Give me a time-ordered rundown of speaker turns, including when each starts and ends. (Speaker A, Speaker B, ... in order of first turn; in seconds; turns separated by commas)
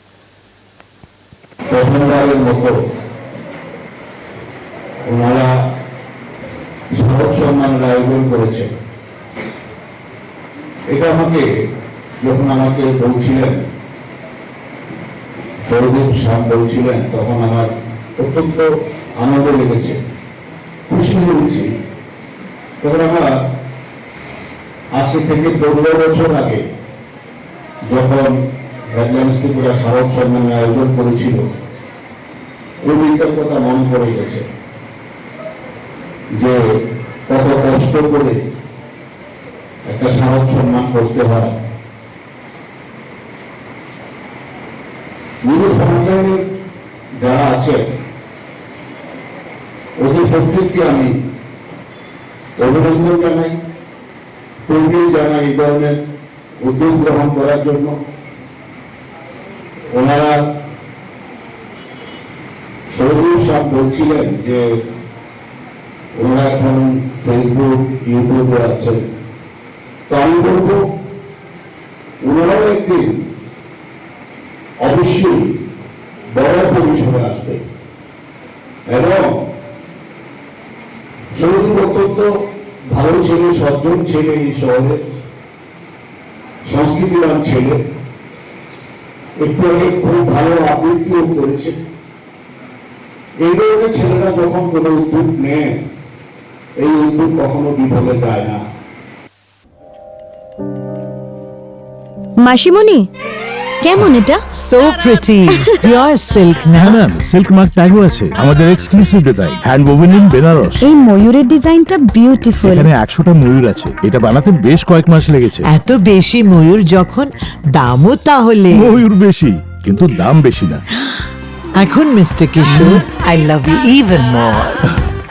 Speaker A: 1.7-2.7, Speaker A: 5.1-5.5, Speaker A: 7.0-8.7, Speaker A: 10.9-11.4, Speaker A: 12.2-13.6, Speaker A: 15.7-18.7, Speaker A: 19.2-20.0, Speaker A: 20.9-21.7, Speaker A: 22.8-23.2, Speaker A: 25.0-26.6, Speaker A: 27.9-28.3, Speaker A: 28.9-31.4, Speaker A: 32.9-34.4, Speaker A: 37.3-38.4, Speaker A: 39.9-41.5, Speaker A: 45.5-46.4, Speaker A: 47.2-47.8, Speaker A: 50.0-51.1, Speaker A: 52.6-53.5, Speaker A: 54.7-55.9, Speaker A: 56.6-57.9, Speaker A: 59.9-60.4, Speaker A: 62.9-64.6, Speaker A: 66.2-69.0, Speaker A: 70.1-70.8, Speaker A: 72.2-73.1, Speaker A: 74.8-75.4, Speaker A: 76.3-77.6, Speaker A: 78.9-79.3, Speaker A: 81.4-82.3, Speaker A: 82.9-85.0, Speaker A: 86.7-87.8, Speaker A: 89.4-91.8, Speaker A: 93.4-95.7, Speaker A: 96.8-98.6, Speaker B: 102.4-103.1, Speaker B: 103.8-104.4, Speaker C: 104.5-107.0, Speaker B: 105.5-105.8, Speaker D: 106.8-110.8, Speaker B: 110.8-112.9, Speaker D: 112.6-115.7, Speaker C: 115.7-119.0, Speaker D: 118.7-120.8, Speaker C: 121.8-124.8, Speaker D: 122.7-123.0